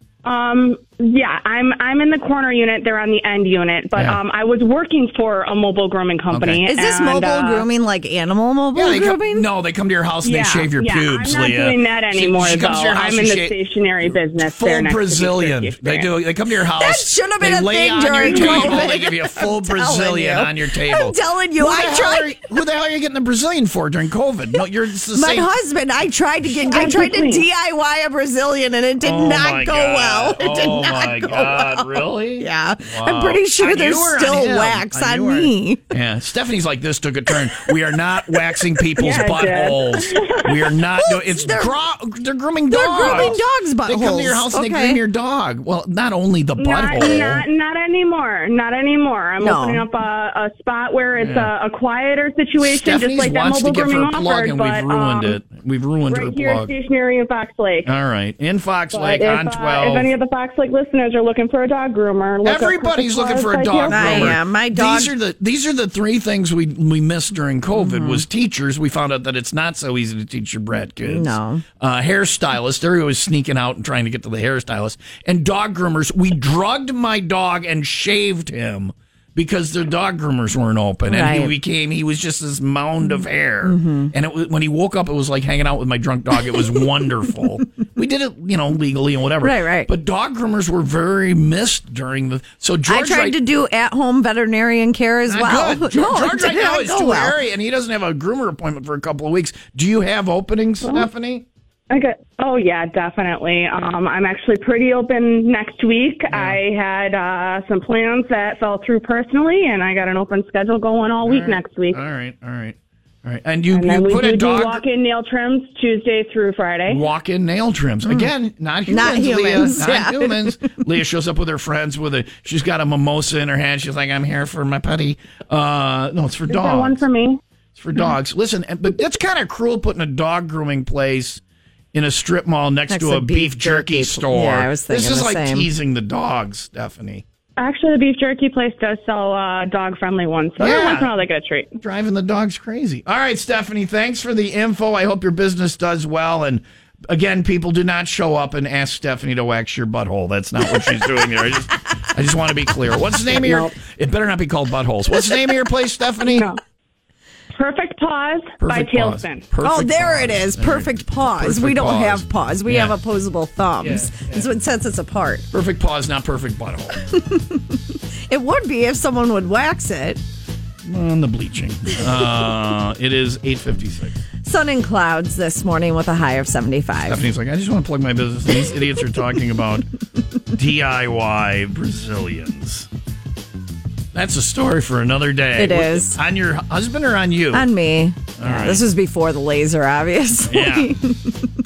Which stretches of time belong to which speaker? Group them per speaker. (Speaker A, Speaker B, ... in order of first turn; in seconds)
Speaker A: 0.2-7.7, 10.2-16.1, 18.2-18.9, 26.6-27.5, 39.0-40.7, 43.0-43.3, 46.6-55.4, 56.1-57.9, 58.9-64.4, 100.8-101.1, 101.9-112.0, 113.7-117.0, 126.5-127.4, 137.6-141.7, 153.4-153.7, 156.2-156.6, 157.5-159.4
Speaker B: 6.3-6.6, 8.7-25.5, 29.0-47.5, 51.2-51.5, 52.6-56.7, 57.9-60.1, 62.4-93.4, 95.3-101.5, 106.3-106.6, 111.2-114.8, 116.9-127.0, 127.8-131.4, 131.9-137.2, 140.6-141.1, 141.8-156.5, 158.6-163.0, 163.8-164.4, 165.5-167.0, 170.8-174.2, 177.0-179.9, 180.5-182.9, 184.1-187.7, 188.4-188.9, 190.5-190.9
Speaker C: 6.7-9.5, 16.6-22.4, 25.1-35.8, 38.6-38.8, 41.0-41.8, 42.7-45.0, 49.4-49.9, 63.9-65.1, 67.8-68.2, 71.0-71.6, 81.0-81.5, 83.0-84.1, 86.5-86.8, 89.4-89.9, 92.9-97.4, 118.9-120.6, 132.9-135.7, 159.6-165.5, 167.1-167.8, 168.3-170.2, 174.4-177.3, 185.6-186.2, 187.5-191.4